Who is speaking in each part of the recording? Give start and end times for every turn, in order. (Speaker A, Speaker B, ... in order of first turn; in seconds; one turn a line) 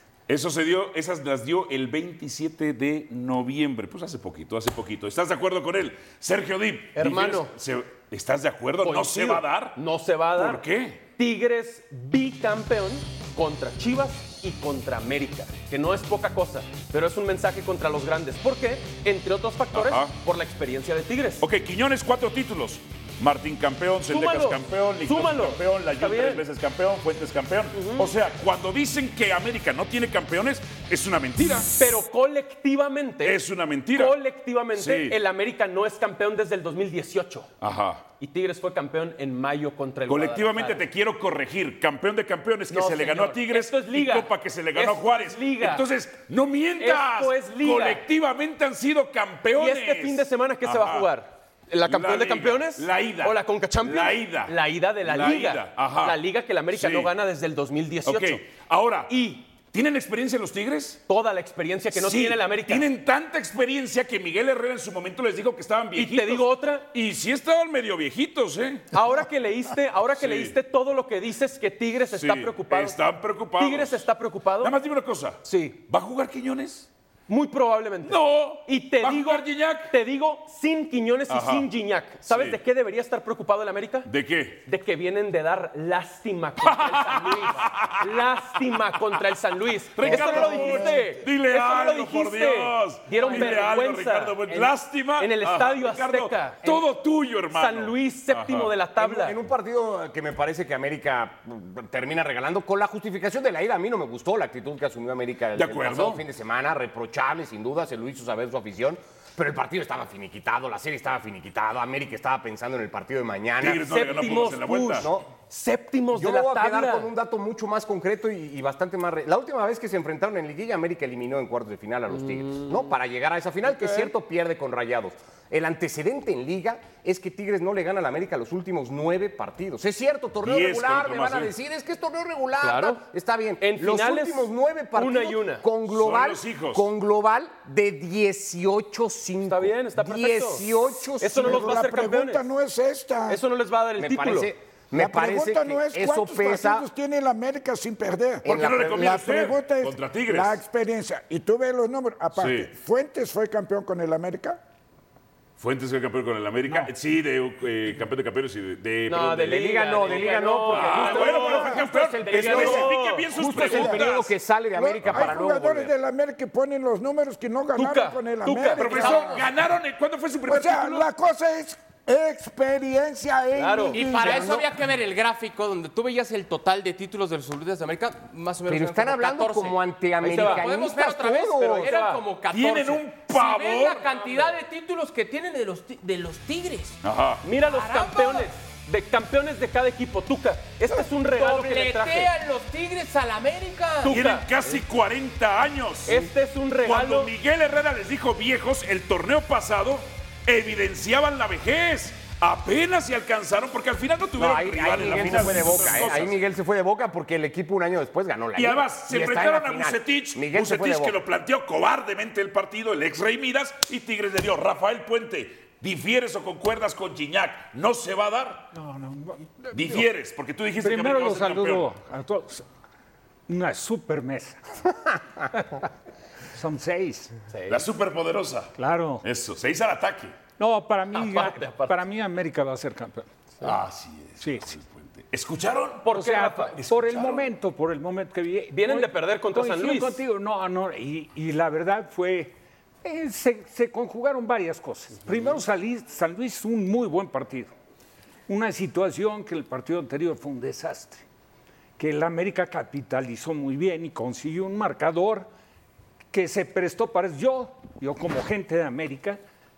Speaker A: 0.3-9.8
Speaker B: 6.9-7.5
Speaker B: 8.8-10.6
Speaker A: 10.3-11.0
Speaker B: 11.2-21.4
Speaker A: 19.7-20.1
Speaker A: 21.4-31.7
Speaker B: 24.1-26.4
Speaker B: 27.7-28.1
Speaker B: 31.8-33.4
Speaker A: 33.2-34.2
Speaker B: 33.9-37.5
Speaker A: 34.7-35.2
Speaker A: 37.6-38.0
Speaker B: 38.2-40.9
Speaker A: 40.0-51.1
Speaker B: 42.7-45.8
Speaker B: 46.8-48.0
Speaker B: 49.5-58.5
Speaker A: 51.8-57.1
Speaker A: 58.0-61.0
Speaker B: 59.1-59.5
Speaker B: 61.1-62.9
Speaker A: 61.9-69.0
Speaker B: 65.9-66.8
Speaker B: 68.9-73.0
Speaker A: 70.2-70.6
Speaker A: 72.1-76.9
Speaker B: 73.6-74.7
Speaker B: 75.4-75.8
Speaker B: 77.3-84.1
Speaker A: 78.0-79.9
Speaker A: 81.3-81.7
Speaker A: 82.2-82.6
Speaker A: 84.0-84.6
Speaker B: 84.7-96.8
Speaker A: 86.6-89.2
Speaker A: 89.9-98.7
Speaker C: 90.1-91.2
Speaker B: 97.5-99.4
Speaker D: 99.0-115.3
Speaker A: 105.5-106.2
Speaker A: 113.6-115.1
Speaker B: 113.8-117.1
Speaker D: 116.1-141.8
Speaker B: 123.7-124.1
Speaker A: 130.4-131.5
Speaker B: 132.6-133.0
Speaker B: 133.6-135.7
Speaker A: 135.9-136.9
Speaker B: 139.4-142.5
Speaker C: 141.4-143.4
Speaker B: 143.3-144.5
Speaker D: 144.0-146.8
Speaker C: 144.9-154.6
Speaker D: 148.4-149.3
Speaker A: 148.5-150.6
Speaker A: 152.3-152.7
Speaker A: 155.6-164.3
Speaker B: 159.1-163.6
Speaker D: 159.5-165.9
Speaker C: 161.4-161.8
Speaker C: 162.5-162.9
Speaker C: 163.6-164.0
Speaker C: 164.7-169.1
Speaker A: 165.0-165.4
Speaker B: 167.7-169.4
Speaker A: 168.8-171.1
Speaker E: 168.8-169.4
Speaker C: 170.5-174.6
Speaker B: 173.5-174.6
Speaker E: 173.9-187.0
Speaker D: 178.7-181.9
Speaker B: 180.2-180.7
Speaker B: 181.8-182.2
Speaker A: 182.5-184.1
Speaker B: 184.2-184.5
Speaker A: 187.0-187.5
Speaker B: 187.4-192.3
Speaker E: 187.7-188.5
Speaker E: 191.3-194.2
Speaker B: 194.0-194.4
Speaker A: 194.0-206.4
Speaker B: 196.0-197.3
Speaker D: 204.4-211.2
Speaker A: 208.5-218.7
Speaker F: 218.7-220.0
Speaker A: 219.7-221.9
Speaker F: 220.8-222.6
Speaker F: 223.5-224.6
Speaker F: 225.4-225.8
Speaker F: 226.5-227.3
Speaker B: 227.5-227.8
Speaker A: 227.7-230.3
Speaker F: 228.8-229.2
Speaker F: 230.6-233.3
Speaker B: 231.1-232.0
Speaker A: 233.6-236.2
Speaker F: 234.4-234.7
Speaker B: 236.0-236.9
Speaker F: 236.1-247.7
Speaker A: 236.8-237.4
Speaker B: 238.7-240.2
Speaker F: 248.5-251.2
Speaker F: 252.0-255.5
Speaker F: 256.3-259.4